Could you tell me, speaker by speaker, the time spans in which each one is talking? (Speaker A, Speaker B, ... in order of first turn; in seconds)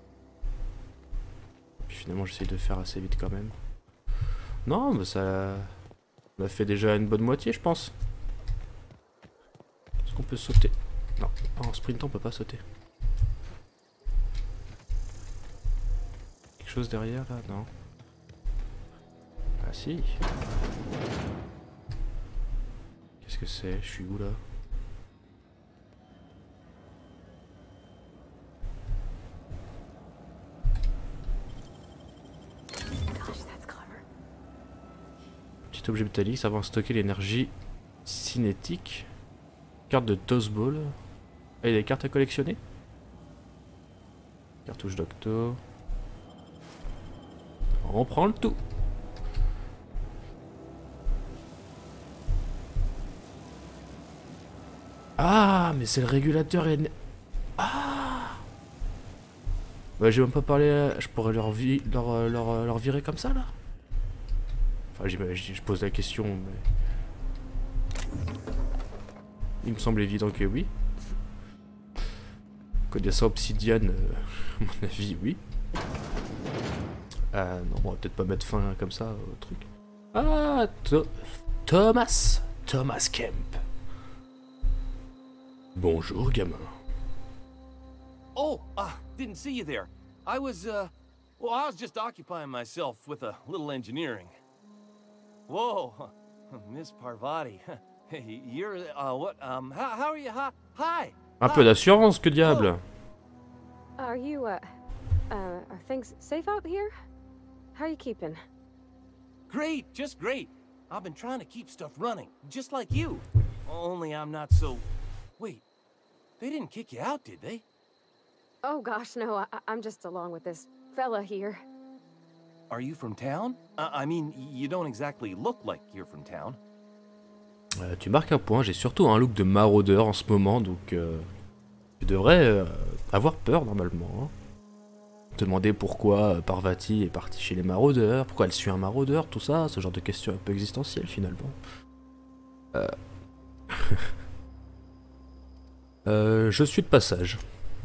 Speaker A: 1.8-3.5, 4.7-5.7, 6.4-7.9, 10.0-12.6, 16.6-17.7, 19.6-20.2, 23.2-24.4, 35.7-37.5, 38.0-39.1, 39.9-41.0, 41.6-42.6, 44.7-45.6, 47.8-48.6, 55.2-56.9, 57.6-58.4, 60.0-63.5, 64.9-66.7, 69.6-70.7, 72.9-75.4, 77.3-83.6, 85.8-86.7, 101.4-102.8, 127.8-131.3, 132.0-134.3, 135.3-141.6, 143.7-144.1, 146.1-147.4
Speaker B: 33.1-34.0, 104.0-104.6, 105.3-106.9, 107.8-108.4, 118.6-121.6
Speaker C: 88.3-94.4, 95.5-101.8, 102.4-102.7, 109.5-114.8, 115.4-115.6, 116.4-117.6, 122.7-126.6